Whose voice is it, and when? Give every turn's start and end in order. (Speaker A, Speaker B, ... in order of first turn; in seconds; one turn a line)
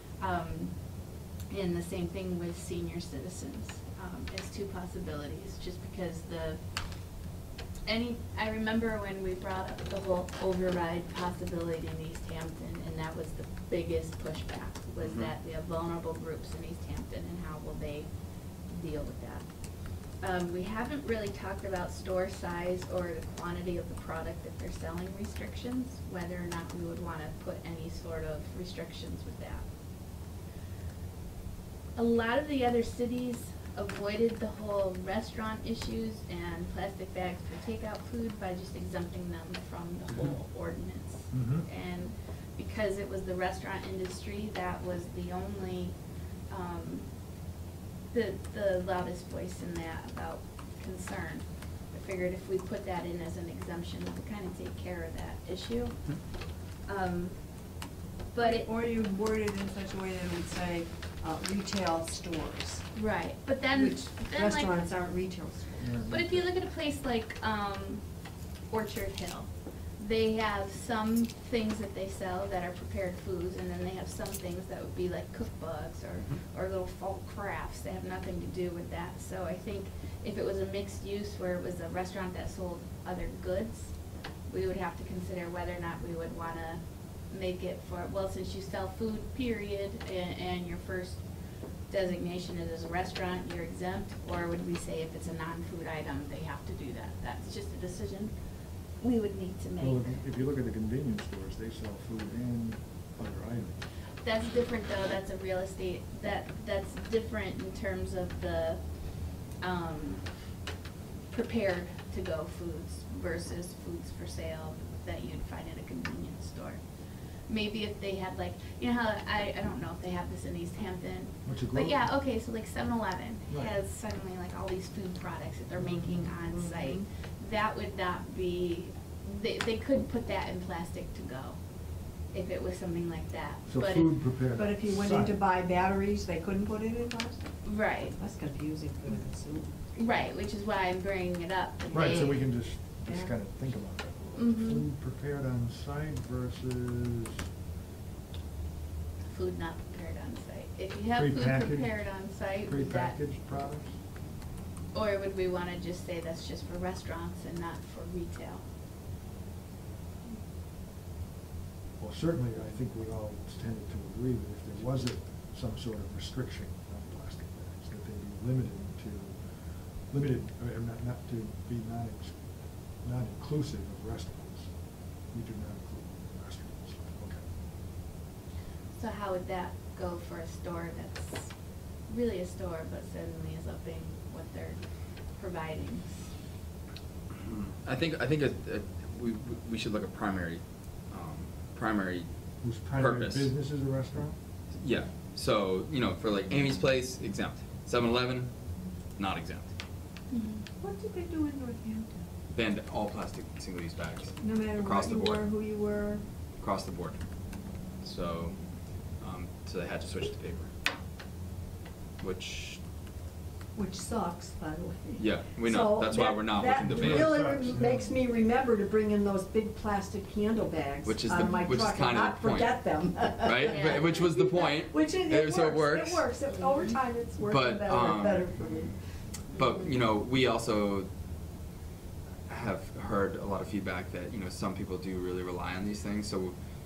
Speaker A: 0.2-0.7
Speaker A: 1.5-6.6
Speaker A: 7.8-18.1
Speaker B: 15.0-15.3
Speaker A: 18.7-19.4
Speaker A: 20.2-29.6
Speaker A: 31.9-46.0
Speaker C: 41.3-41.6
Speaker A: 46.5-47.1
Speaker A: 48.1-56.0
Speaker A: 56.9-57.4
Speaker A: 58.3-58.7
Speaker D: 58.4-62.9
Speaker A: 62.9-64.7
Speaker D: 63.7-65.9
Speaker C: 65.8-66.5
Speaker A: 66.1-68.0
Speaker A: 68.7-83.9
Speaker A: 84.5-91.2
Speaker A: 91.9-98.3
Speaker A: 99.0-100.2
Speaker C: 99.8-103.8
Speaker A: 104.2-108.8
Speaker A: 109.6-110.3
Speaker A: 111.3-116.8
Speaker A: 117.5-131.6
Speaker C: 121.4-122.0
Speaker C: 123.5-123.8
Speaker A: 132.3-134.1
Speaker C: 133.7-135.3
Speaker D: 134.6-137.6
Speaker A: 137.6-138.2
Speaker D: 138.1-139.8
Speaker A: 139.9-142.4
Speaker C: 141.9-147.4
Speaker A: 144.4-144.8
Speaker A: 149.3-153.2
Speaker C: 151.1-153.9
Speaker A: 154.9-158.6
Speaker C: 162.0-172.3
Speaker C: 173.0-174.7
Speaker C: 175.3-177.4
Speaker A: 178.9-181.5
Speaker A: 182.1-184.8
Speaker A: 185.4-186.3
Speaker B: 187.4-192.3
Speaker C: 192.6-194.4
Speaker B: 193.0-193.5
Speaker B: 194.8-198.5
Speaker B: 199.2-199.7
Speaker A: 200.3-200.6
Speaker D: 200.8-202.2
Speaker B: 202.5-205.5
Speaker D: 204.4-206.2
Speaker B: 206.6-207.2
Speaker B: 208.0-208.6
Speaker B: 209.2-210.7
Speaker B: 212.2-212.8
Speaker D: 213.7-228.9
Speaker B: 215.2-217.5
Speaker C: 216.8-218.1
Speaker B: 221.0-226.3
Speaker A: 223.7-224.2
Speaker A: 226.6-226.9
Speaker B: 227.4-228.9
Speaker B: 229.5-231.1
Speaker A: 229.5-229.8
Speaker B: 232.5-236.5